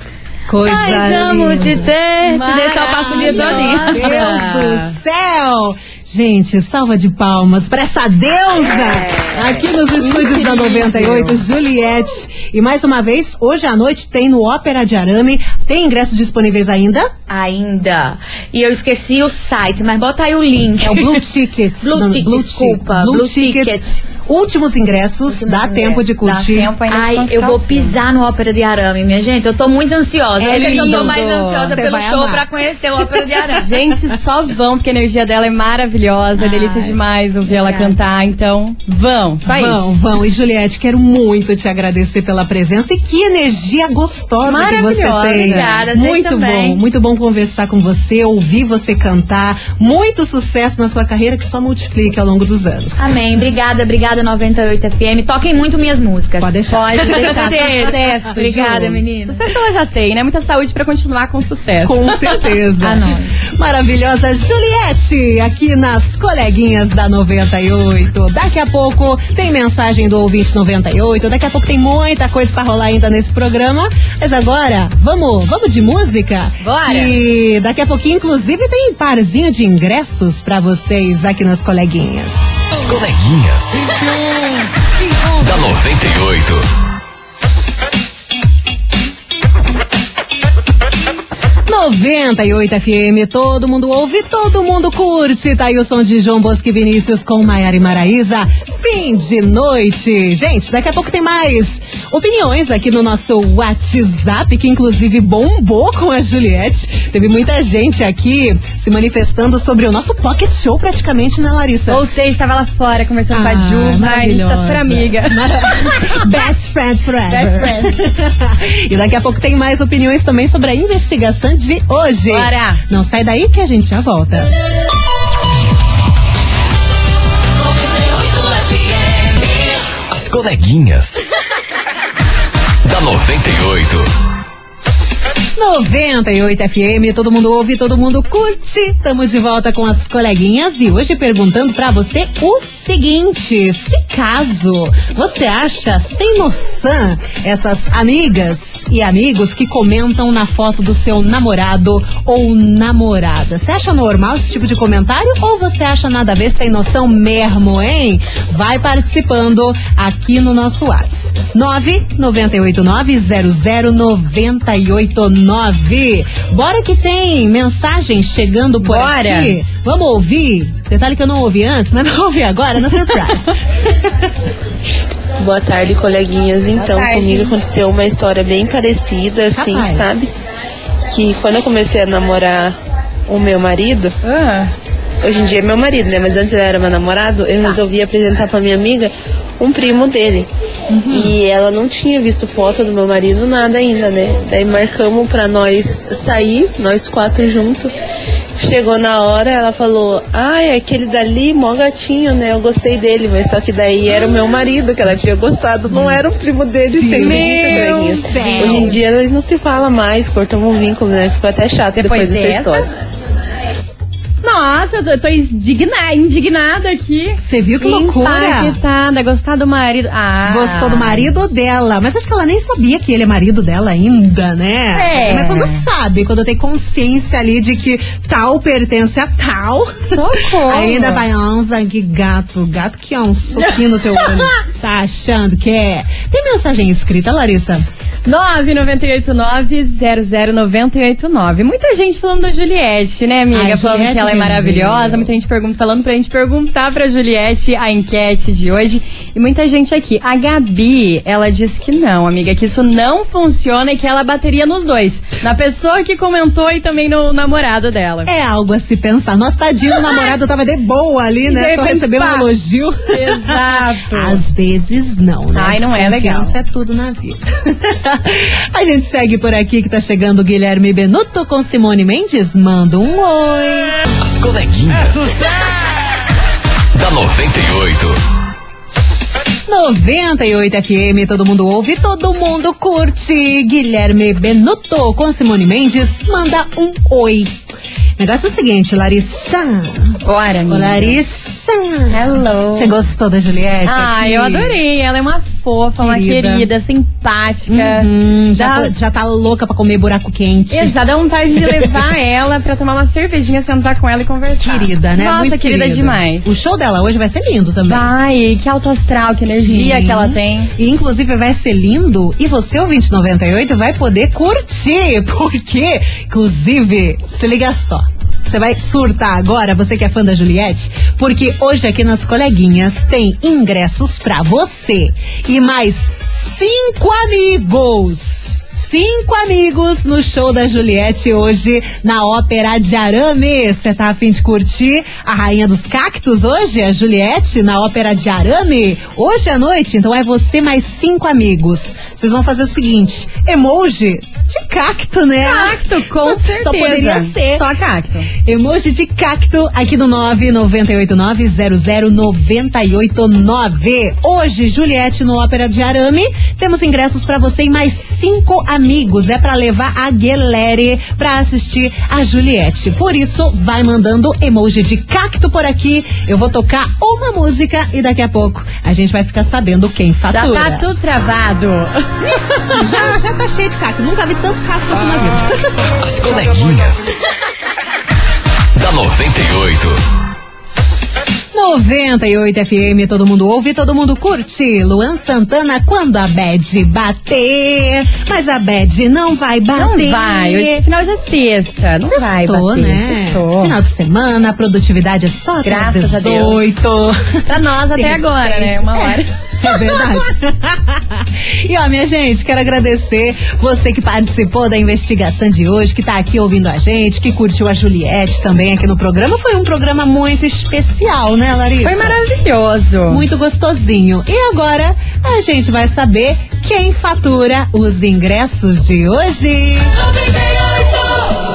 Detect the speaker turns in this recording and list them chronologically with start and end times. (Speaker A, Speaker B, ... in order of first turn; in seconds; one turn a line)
Speaker A: 0.5-1.9
Speaker B: 0.6-4.2
Speaker C: 2.2-4.9
Speaker A: 3.2-17.1
Speaker C: 10.0-11.4
Speaker B: 17.3-21.2
Speaker A: 20.8-26.7
Speaker B: 21.8-24.1
Speaker B: 25.3-26.0
Speaker C: 25.6-27.9
Speaker B: 26.9-33.7
Speaker A: 30.4-32.5
Speaker C: 30.4-31.8
Speaker A: 33.0-33.4
Speaker C: 33.5-39.9
Speaker B: 36.4-38.0
Speaker A: 39.4-53.2
Speaker C: 44.4-45.9
Speaker B: 45.3-46.8
Speaker B: 53.0-59.4
Speaker A: 56.4-57.9
Speaker C: 56.7-62.3
Speaker A: 61.8-82.6
Speaker B: 62.8-63.4
Speaker C: 76.6-77.2
Speaker D: 82.7-83.9
Speaker D: 85.4-86.7
Speaker A: 91.7-112.0
Speaker C: 111.9-115.5
Speaker A: 113.3-124.5
Speaker C: 117.3-117.9
Speaker C: 122.3-122.8
Speaker D: 130.1-131.2
Speaker D: 132.8-134.1
Speaker A: 135.6-174.2
Speaker C: 168.8-169.6
Speaker E: 175.3-180.3
Speaker C: 176.7-177.6
Speaker A: 179.5-180.3
Speaker E: 181.1-182.8
Speaker E: 183.3-184.1
Speaker C: 184.2-184.7
Speaker E: 185.2-190.5
Speaker A: 190.9-191.3
Speaker E: 191.1-197.9
Speaker E: 198.6-212.9
Speaker A: 205.9-206.2
Speaker A: 206.9-209.0
Speaker C: 207.1-209.0
Speaker C: 211.9-212.8
Speaker C: 214.4-221.3
Speaker A: 217.4-218.8
Speaker A: 220.4-237.8
Speaker C: 224.9-225.9
Speaker C: 230.1-231.2
Speaker C: 233.6-234.5
Speaker C: 238.2-258.3
Speaker A: 243.5-245.3
Speaker A: 258.2-273.9
Speaker C: 261.4-262.5
Speaker C: 263.1-264.4
Speaker C: 265.5-266.5
Speaker D: 274.2-275.6
Speaker D: 276.9-278.2
Speaker A: 279.7-287.6
Speaker A: 288.2-292.2
Speaker C: 290.2-291.2
Speaker C: 292.1-292.9
Speaker A: 292.7-294.8
Speaker C: 293.8-298.9
Speaker A: 296.0-296.7
Speaker A: 297.7-301.0
Speaker C: 300.7-306.5
Speaker A: 301.5-302.0
Speaker A: 304.6-308.1
Speaker C: 307.9-310.7
Speaker A: 309.6-347.7
Speaker C: 345.4-348.3
Speaker A: 348.4-370.9
Speaker C: 370.3-373.1
Speaker A: 372.2-375.9
Speaker D: 376.0-377.1
Speaker D: 378.7-380.0
Speaker A: 381.5-390.8
Speaker C: 389.8-393.8
Speaker A: 392.0-412.2
Speaker C: 395.6-396.6
Speaker C: 397.4-400.0
Speaker C: 411.8-413.2
Speaker A: 413.1-419.9